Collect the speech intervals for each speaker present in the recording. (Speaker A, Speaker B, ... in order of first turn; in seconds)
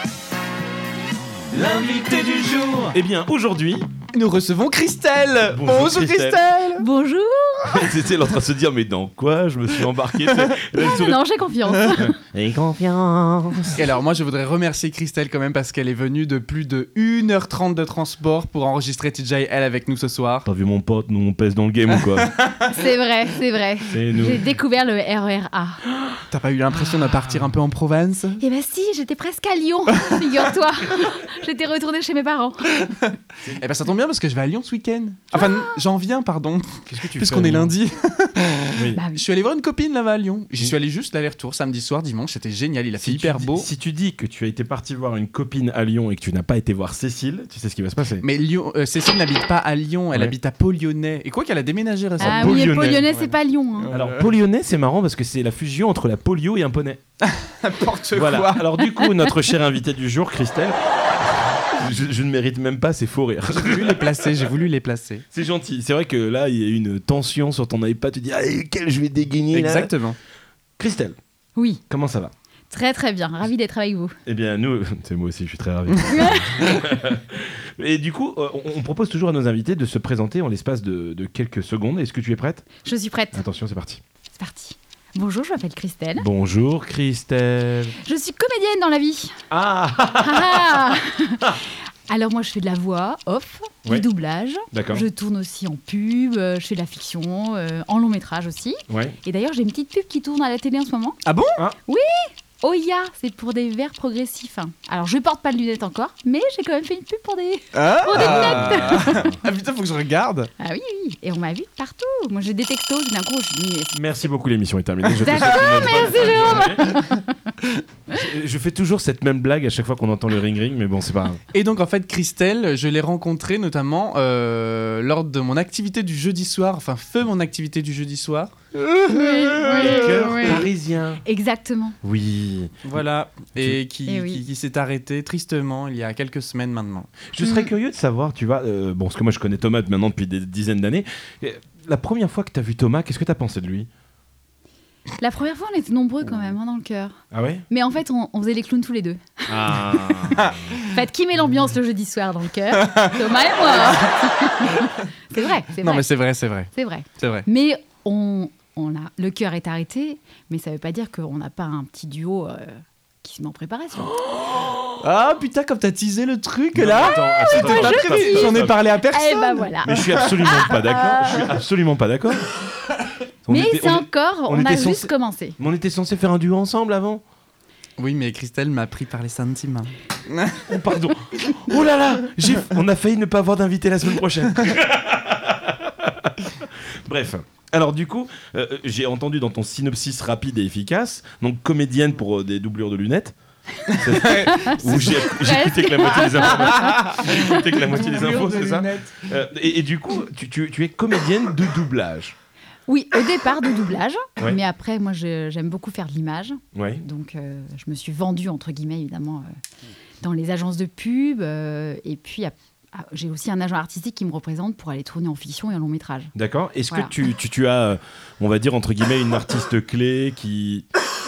Speaker A: 1.5-3.0, 4.1-6.8, 13.8-20.5, 26.3-28.4, 29.9-30.3, 33.6-43.7, 48.2-54.3, 57.2-59.2, 63.5-65.2, 69.5-70.2, 101.2-101.6, 107.7-110.5, 121.5-130.6, 132.8-137.2, 152.8-154.1, 155.8-157.5, 165.0-170.3, 178.0-180.7, 193.9-195.3, 196.6-199.3
Speaker B: 2.9-3.9, 5.5-6.4, 7.7-11.2, 11.9-13.9, 20.4-22.3, 23.9-24.4, 36.9-37.8, 38.7-39.0, 43.0-48.2, 52.2-53.0, 53.9-57.0, 58.1-60.8, 61.7-64.4, 65.3-69.9, 70.8-71.2, 71.9-72.3, 74.3-82.7, 83.3-84.0, 86.2-88.0, 89.5-91.6, 94.7-95.1, 98.9-99.2, 108.1-109.4, 113.9-116.9, 118.1-121.4, 129.7-131.2, 132.0-132.9, 137.3-143.9, 147.3-147.6, 149.5-150.6, 164.3-164.9, 166.7-168.8, 169.8-172.5, 173.5-177.2, 180.7-193.3, 193.9-202.3, 206.7-207.1, 216.3-220.9
Speaker C: 6.8-7.9, 10.8-12.2, 22.7-25.8, 28.4-33.0, 35.3-35.6, 39.0-39.2, 52.2-53.9, 71.6-71.8, 72.7-74.2, 76.1-76.5, 82.8-83.4, 84.4-86.3, 88.0-89.4, 90.2-101.2, 101.9-109.3, 110.6-114.0, 115.2-117.5, 129.1-130.6, 131.2-131.9, 134.1-134.4, 137.4-137.7, 145.2-147.2, 147.7-156.1, 156.7-164.2, 167.0-171.4, 173.5-175.6, 193.9-197.6, 202.9-209.5, 210.2-216.3, 216.9-217.2